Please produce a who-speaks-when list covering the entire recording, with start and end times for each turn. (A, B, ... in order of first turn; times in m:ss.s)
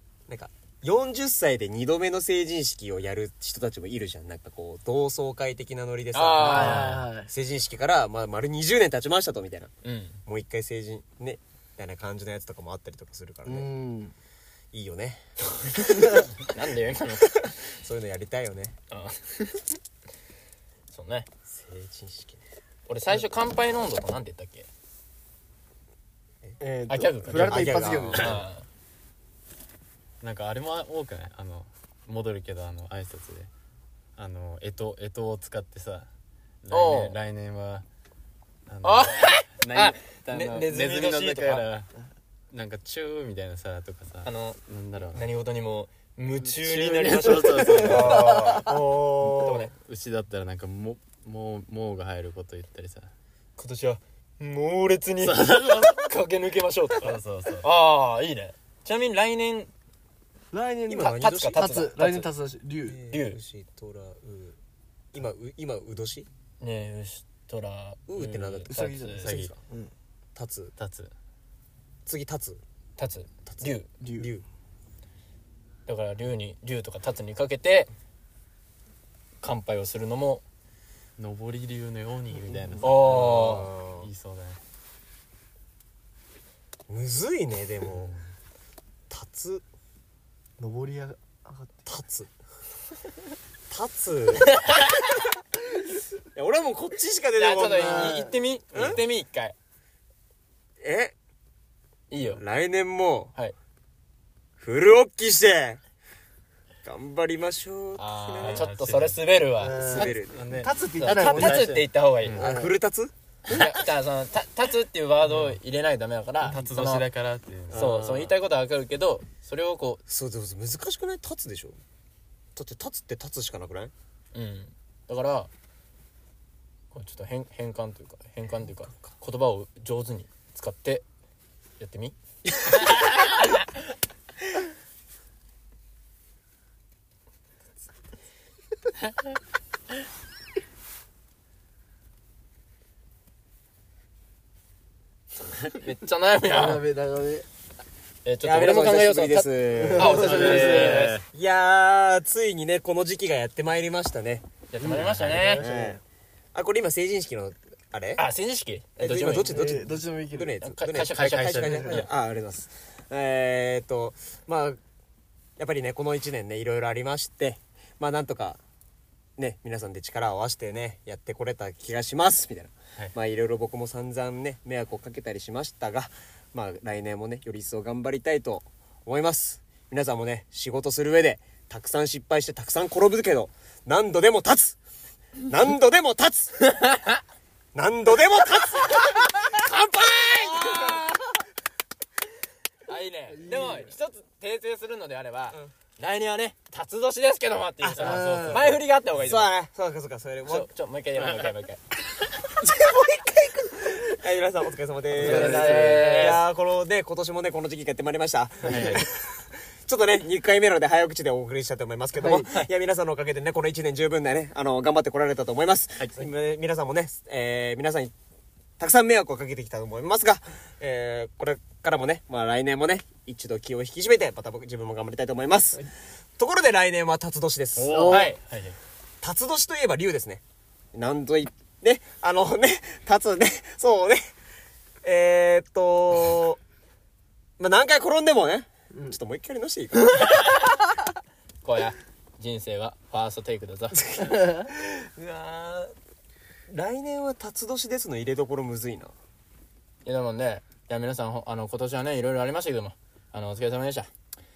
0:00.3-0:09.7 A
0:06.1-0:07.1 B
0:06.4-0:07.3 C
0:09.8-0:10.2 B
0:10.2-0:13.7 A
0:13.4-0:14.1 C
0:14.7-0:15.2 A
0:15.8-0:17.4 B
0:17.3-0:18.8 A
0:18.9-0:19.7 B
0:20.9-0:21.3 B
0:21.4-0:22.4 A
0:22.9-0:24.7 B
0:26.6-0:28.4 C
0:26.9-0:28.6 B
0:27.3-0:28.4 A
0:30.2-0:33.5 D
0:34.2-0:36.1 D
0:36.6-0:37.8 D
0:36.7-0:37.2 B
0:38.7-0:41.9 D
0:38.8-0:41.7 B
0:42.5-0:45.3 D
0:44.2-0:44.6 B
0:45.1-0:49.7 B
0:46.4-0:53.1 D
0:47.7-0:48.3 C
0:48.6-0:49.7 A
0:53.6-0:59.7 B
0:55.2-0:56.1 D
0:57.0-0:57.7 D
1:00.5-1:03.0 C
1:00.9-1:01.7 A
1:01.0-1:02.3 B
1:02.8-1:04.6 A
1:03.1-1:03.4 B
1:05.1-1:06.3 A
1:06.6-1:09.3 B
1:08.1-1:08.7 A
1:08.7-1:09.9 C
1:09.2-1:09.5 D
1:09.2-1:09.6 A
1:10.4-1:10.7 A
1:10.8-1:11.1 D
1:12.0-1:12.6 A
1:13.0-1:13.9 B
1:13.4-1:14.4 A
1:14.0-1:14.3 C
1:15.8-1:17.9 B
1:19.4-1:20.4 B
1:21.2-1:24.6 D
1:22.8-1:23.7 B
1:23.0-1:24.1 A
1:26.9-1:28.2 A
1:29.1-1:29.6 A
1:30.6-1:31.8 C
1:31.8-1:32.3 A
1:33.7-1:34.7 A
1:34.5-1:34.8 B
1:36.3-1:39.0 A
1:37.4-1:39.5 B
1:37.6-1:38.3 C
1:40.8-1:41.1 A
1:42.1-1:42.4 B
1:42.3-1:43.3 A
1:44.6-1:45.8 A
1:46.8-1:48.7 A
1:48.0-1:50.1 B
1:48.4-1:49.2 D
1:49.6-1:51.8 C
1:49.7-1:50.4 A
1:50.0-1:52.4 D
1:51.0-1:52.4 B
1:52.4-1:53.1 A
1:52.4-1:52.7 C
1:53.5-1:57.1 B
1:55.2-1:55.6 D
1:56.4-1:57.9 D
1:57.7-1:58.3 A
1:57.7-2:00.0 B
2:00.1-2:01.8 A
2:02.5-2:03.9 A
2:04.3-2:05.5 B
2:06.9-2:11.0 B
2:11.8-2:12.2 B
2:12.7-2:13.4 B
2:25.7-2:26.8 B
2:26.4-2:27.4 C
2:28.2-2:31.2 B
2:28.4-2:34.5 A
2:29.7-2:31.1 C
2:30.4-2:31.2 D
2:34.7-2:35.6 B
2:34.8-2:36.0 C
2:35.6-2:36.0 A
2:36.5-2:38.2 A
2:38.2-2:39.6 B
2:39.0-2:44.8 A
2:39.4-2:40.6 C
2:40.6-2:42.1 B
2:41.6-2:42.0 C
2:45.6-2:48.6 A
2:49.4-3:04.8 A
3:05.4-3:06.6 A
3:06.6-3:07.2 B
3:07.7-3:09.5 A
3:09.3-3:11.1 B
3:10.2-3:11.2 A
3:12.9-3:19.5 B
3:13.3-3:13.9 C
3:17.8-3:20.7 A
3:17.9-3:18.8 C
3:20.4-3:21.8 B
3:22.6-3:23.1 A
3:22.8-3:23.7 C
3:23.8-3:38.1 A
3:25.1-3:26.3 C
3:25.1-3:26.4 B
3:28.6-3:29.0 D
3:32.2-3:32.5 C
3:38.8-3:48.2 A
3:47.8-3:48.8 B
3:47.8-3:48.1 D
3:47.9-3:48.3 C
3:49.2-3:50.4 A
3:50.9-3:54.3 A
3:55.0-3:56.6 A
3:57.6-4:00.5 A
4:00.2-4:00.7 B
4:01.6-4:04.1 B
4:04.1-4:05.9 A
4:04.4-4:04.7 C
4:06.7-4:09.1 A
4:10.0-4:14.1 B